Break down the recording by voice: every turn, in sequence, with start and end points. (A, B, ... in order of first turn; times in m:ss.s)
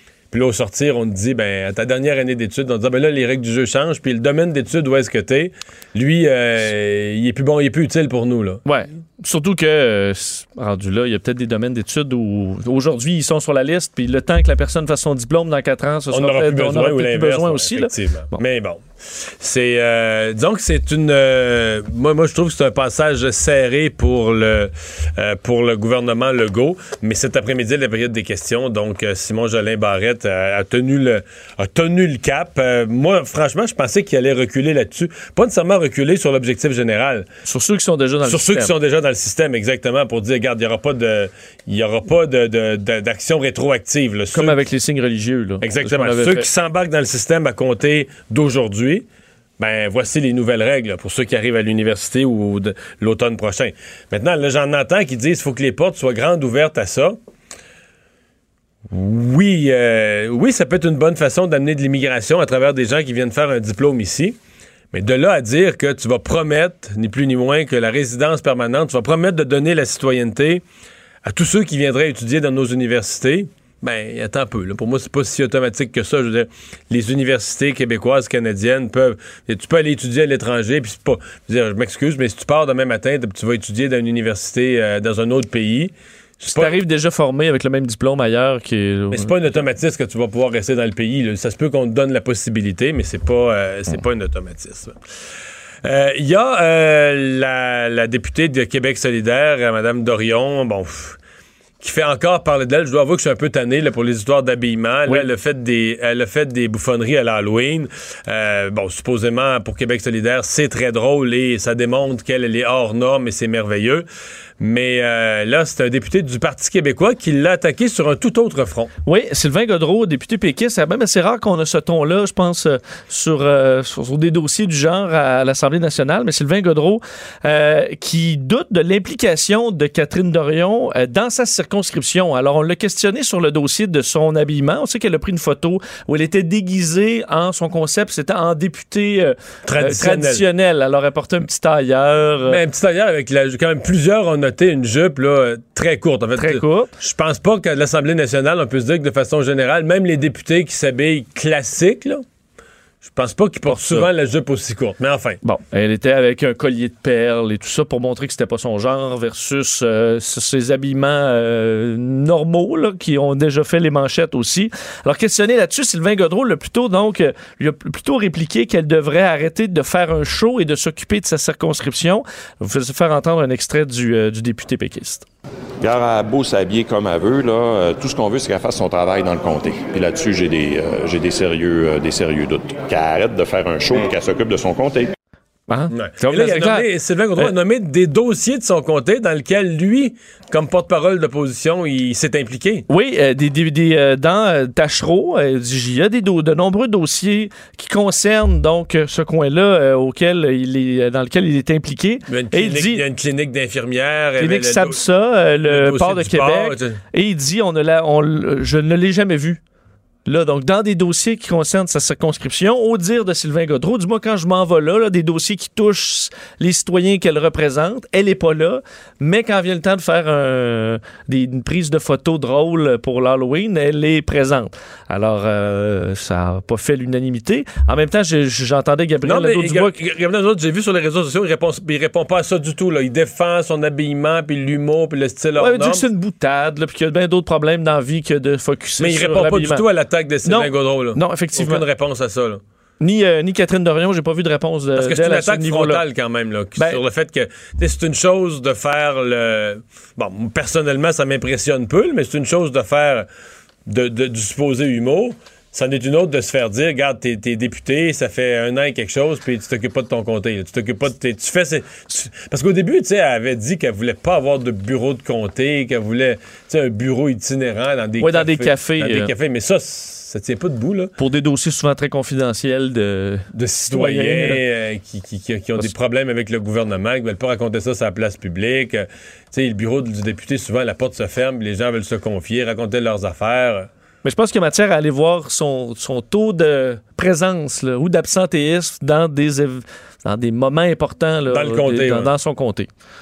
0:00.3-0:08.6 A
0:08.6-0:18.4 B
0:16.1-0:37.3 A
0:37.4-0:38.7 B
0:38.2-0:44.6 A
0:44.3-0:46.5 B
0:45.6-0:49.0 A
0:49.6-0:57.2 A
0:58.9-1:04.4 A
1:04.9-1:10.6 A
1:11.2-1:26.7 A
1:26.5-1:29.3 B
1:29.1-1:35.0 A
1:35.8-1:41.2 A
1:41.8-1:54.1 A
1:54.6-1:58.9 A
1:59.1-2:22.6 B
2:19.7-2:20.4 A
2:22.5-2:32.2 A
2:26.4-2:26.9 B
2:33.0-2:35.4 A
2:33.7-2:34.1 B
2:35.4-2:55.3 B
2:55.8-3:05.1 C
3:05.7-3:06.9 B
3:05.9-3:12.9 A
3:12.9-3:23.0 B
3:22.3-3:25.0 A
3:24.4-3:29.6 B
3:25.7-3:27.0 A
3:30.3-3:50.0 B
3:49.3-3:56.0 A
3:55.6-3:59.8 B
3:59.0-4:02.6 A
4:00.5-4:01.8 B
4:03.0-4:06.0 B
4:05.0-4:13.3 A
4:13.9-4:31.1 A
4:28.2-4:29.3 B
4:31.2-4:34.6 B
4:33.5-4:43.9 A
4:44.2-4:52.9 B
4:51.5-4:52.3 A